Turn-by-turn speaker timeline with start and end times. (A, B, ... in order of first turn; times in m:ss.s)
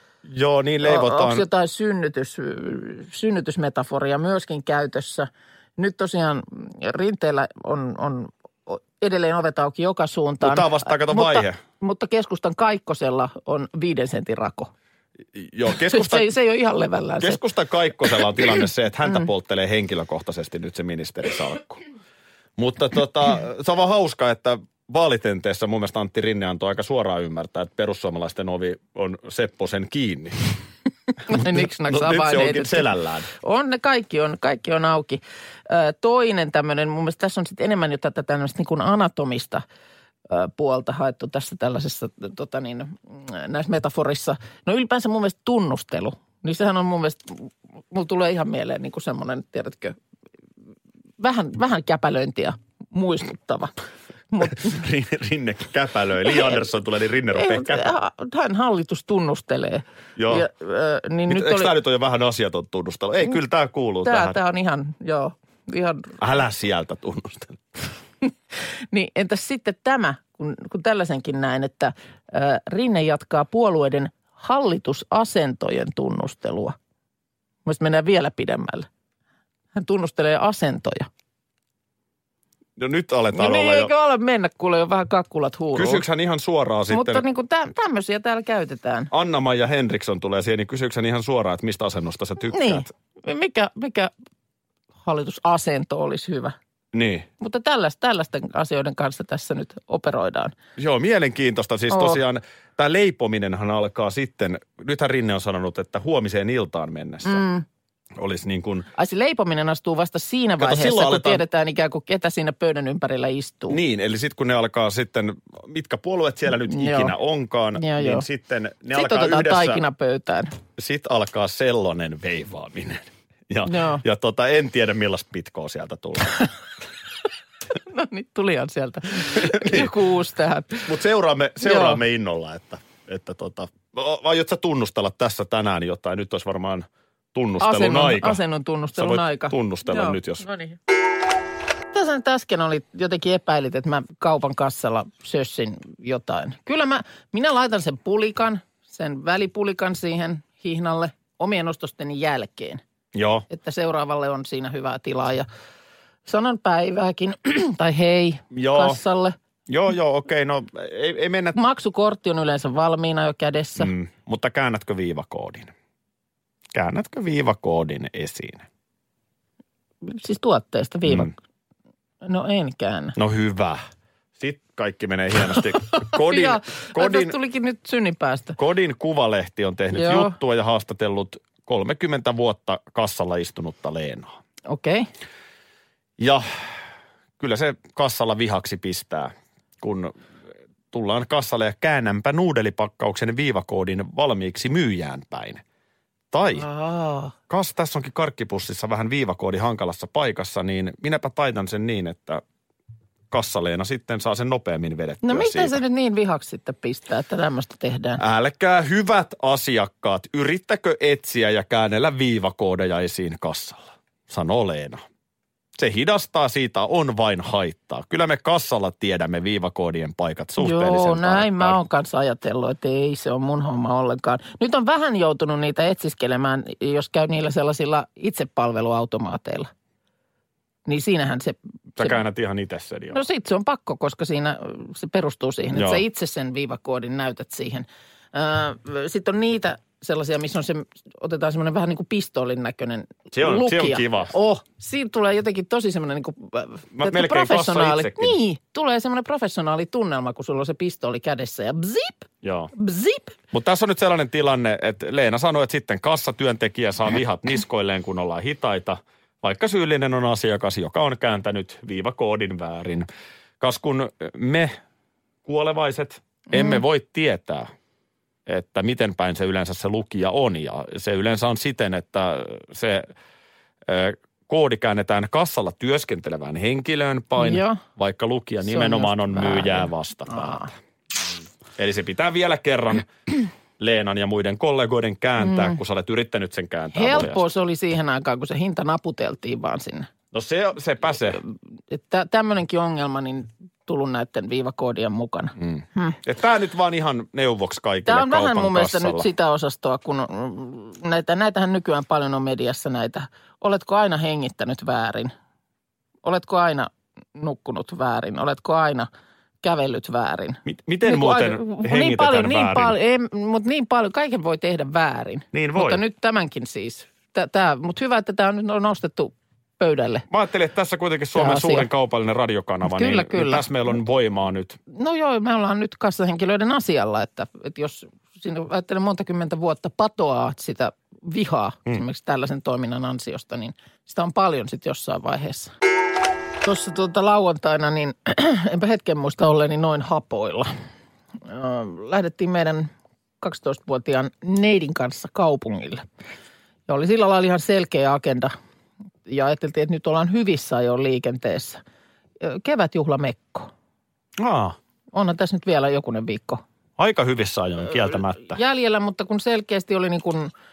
0:00.2-0:01.4 A
0:00.8-0:14.7 B
0:10.4-0:11.6 A
0:15.3-0:16.3 A
0:15.8-0:17.4 B
0:17.2-0:21.8 A
0:22.6-0:30.5 A
0:31.2-0:39.6 B
0:31.3-0:33.3 A
0:40.3-0:50.0 B
0:51.2-0:53.7 B
0:54.3-0:54.8 B
0:54.4-0:57.9 A
0:57.3-1:01.7 B
1:00.2-1:00.5 A
1:01.3-1:04.4 A
1:04.0-1:06.1 B
1:06.2-1:07.6 A
1:08.9-1:16.8 B
1:17.6-1:18.9 B
1:19.8-1:21.1 B
1:22.8-1:23.9 A
1:23.3-1:26.0 B
1:25.8-1:27.2 A
1:26.9-1:29.1 B
1:29.1-1:32.9 A
1:32.5-1:34.1 B
1:35.0-1:36.6 B
1:36.9-1:37.3 A
1:37.4-1:40.6 B
1:40.8-1:47.4 A
1:41.9-1:42.2 B
1:47.2-1:47.6 B
1:48.2-1:48.9 A
1:49.0-1:53.8 B
1:50.6-1:51.4 A
1:53.7-1:59.8 A
1:56.7-1:57.1 B
1:57.8-1:58.2 B
1:58.9-2:00.5 B
2:00.8-2:06.4 A
2:03.6-2:04.0 B
2:07.8-2:10.9 B
2:09.2-2:09.9 A
2:10.9-2:18.4 A
2:11.6-2:12.0 B
2:17.6-2:20.8 B
2:19.0-2:20.4 A
2:21.9-2:32.8 B
2:33.1-2:33.5 A
2:33.5-2:35.5 B
2:36.2-2:39.4 B
2:38.5-2:39.0 A
2:39.7-2:41.6 A
2:41.6-2:43.9 B
2:43.8-2:45.7 A
2:46.7-2:48.6 A
2:50.0-2:51.3 B
2:52.2-2:53.2 B
2:53.2-2:53.8 A
2:54.4-2:57.4 A
2:56.0-2:58.6 B
2:58.6-3:04.4 A
2:59.9-3:00.4 B
3:04.7-3:05.1 B
3:06.2-3:06.4 A
3:07.4-3:10.2 A
3:10.9-3:15.6 A
3:16.3-3:16.7 A
3:16.6-3:17.3 B
3:17.5-3:22.4 A
3:23.3-3:25.8 A
3:25.2-3:28.2 B
3:28.2-3:35.0 A
3:35.8-3:41.8 A
3:40.6-3:49.7 B
3:50.9-3:52.2 B
3:52.0-3:53.2 A
3:53.1-4:13.4 B
3:55.7-3:56.0 A
4:03.3-4:04.3 A
4:06.9-4:08.4 A
4:12.4-4:12.7 A
4:13.5-4:23.1 A
4:23.6-4:24.8 A
4:25.4-4:27.7 A
4:26.5-4:26.8 B
4:28.5-4:33.1 A
4:33.9-4:40.6 A
4:37.4-4:37.8 B
4:38.6-4:40.7 B
4:41.8-4:47.4 A
4:45.4-4:45.8 B
4:46.9-4:50.1 B
4:50.3-4:51.4 A
4:51.4-4:56.2 B
4:55.6-4:59.3 A
4:58.1-5:05.3 B
5:06.2-5:09.1 B
5:09.6-5:20.3 B
5:10.6-5:13.0 A
5:15.5-5:16.0 A
5:20.3-5:24.8 A
5:21.4-5:21.9 B
5:22.8-5:23.7 B
5:24.9-5:35.7 B
5:36.6-5:40.7 B
5:41.4-5:42.9 B
5:43.4-5:46.0 B
5:46.9-5:48.6 B
5:49.2-5:51.8 B
5:52.4-5:53.7 B
5:54.4-5:54.8 A
5:55.1-5:56.6 B
5:57.0-5:58.6 A
5:58.1-6:00.5 B